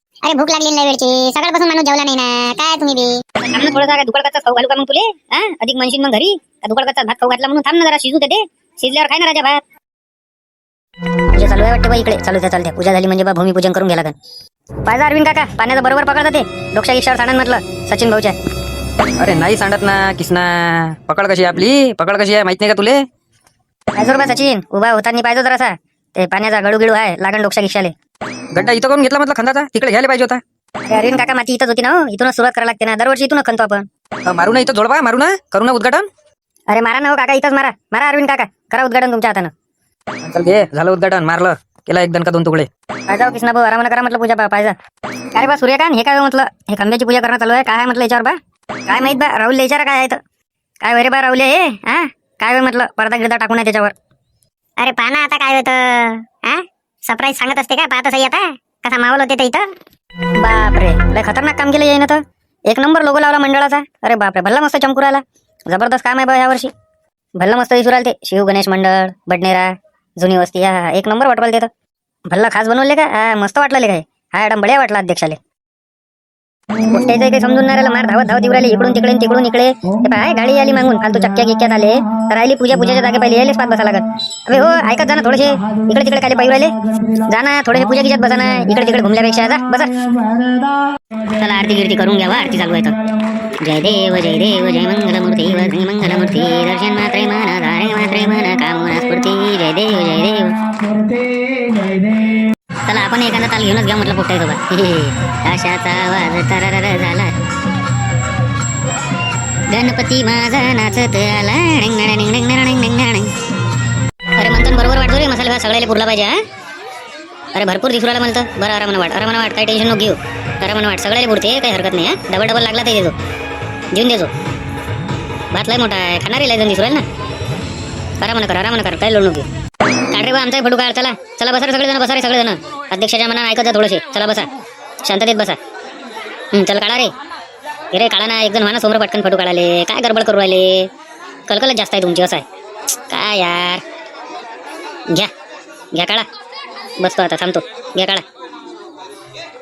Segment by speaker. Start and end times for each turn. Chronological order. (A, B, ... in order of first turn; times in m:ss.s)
0:00.2-0:03.2 A
0:03.4-0:09.6 B
0:11.3-0:14.1 B
0:14.8-0:18.3 B
0:19.2-0:23.0 C
0:23.9-0:27.9 B
0:28.5-0:30.4 C
0:30.8-0:33.8 B
0:34.2-0:36.1 C
0:36.7-0:39.5 B
0:40.2-0:42.7 C
0:43.1-0:44.7 B
0:45.3-0:50.2 B
0:50.8-0:53.9 B
0:54.8-0:59.6 A
1:00.4-1:06.7 B
1:07.4-1:11.7 B
1:12.3-1:15.4 B
1:16.8-1:30.0 B
1:31.3-1:33.0 B
1:33.6-1:40.6 B
1:42.8-1:47.3 B
1:49.7-1:53.3 B
1:54.4-1:56.4 B
1:57.5-2:03.1 B
2:03.9-2:04.3 B
2:05.5-2:07.0 B
2:08.2-2:09.4 B
2:10.1-2:14.5 B
2:15.0-2:15.6 B
2:16.5-2:17.1 B
2:17.9-2:20.9 B
2:21.5-2:22.4 B
2:23.1-2:23.8 B
2:25.9-2:26.3 B
2:27.0-2:28.2 B